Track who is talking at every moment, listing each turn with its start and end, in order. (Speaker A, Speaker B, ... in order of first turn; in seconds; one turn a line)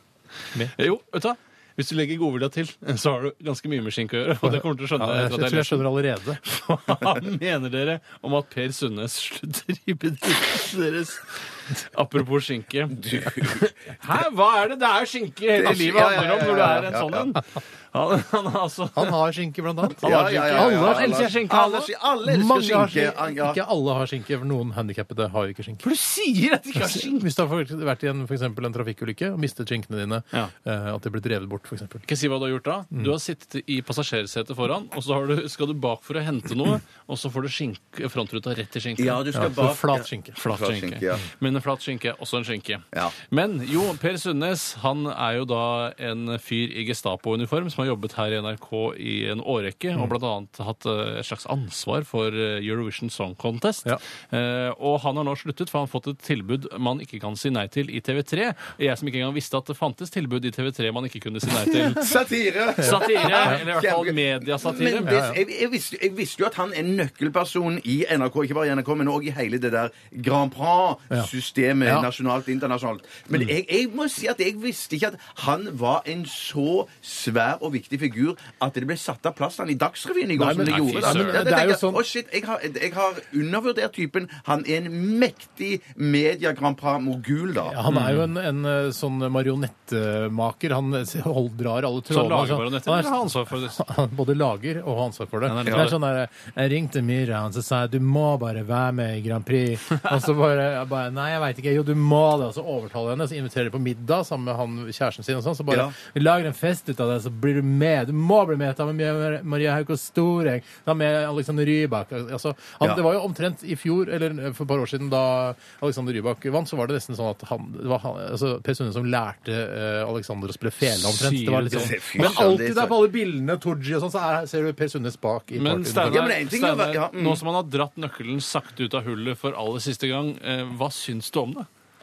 Speaker A: 0.6-5.9
Speaker B: 4.4-6.4
Speaker A: 6.4-19.1
Speaker C: 12.9-13.7
Speaker C: 15.5-17.4
Speaker B: 18.9-21.4
Speaker A: 20.0-21.9
Speaker C: 20.0-23.6
Speaker B: 22.2-25.8
Speaker A: 25.8-27.3
Speaker B: 26.8-32.1
Speaker A: 32.1-39.2
Speaker C: 39.0-41.2
Speaker B: 39.3-40.4
Speaker A: 40.4-62.2
Speaker C: 61.7-87.8
Speaker A: 62.7-65.2
Speaker B: 65.0-65.4
Speaker B: 80.4-82.0
Speaker A: 80.6-81.4
Speaker B: 87.6-93.1
Speaker A: 87.9-88.3
Speaker A: 92.1-93.8
Speaker B: 93.7-126.2
Speaker A: 95.5-96.0
Speaker C: 95.7-95.9
Speaker C: 105.7-105.9
Speaker A: 120.8-122.4
Speaker C: 121.7-123.0
Speaker A: 125.5-131.7
Speaker C: 126.0-127.4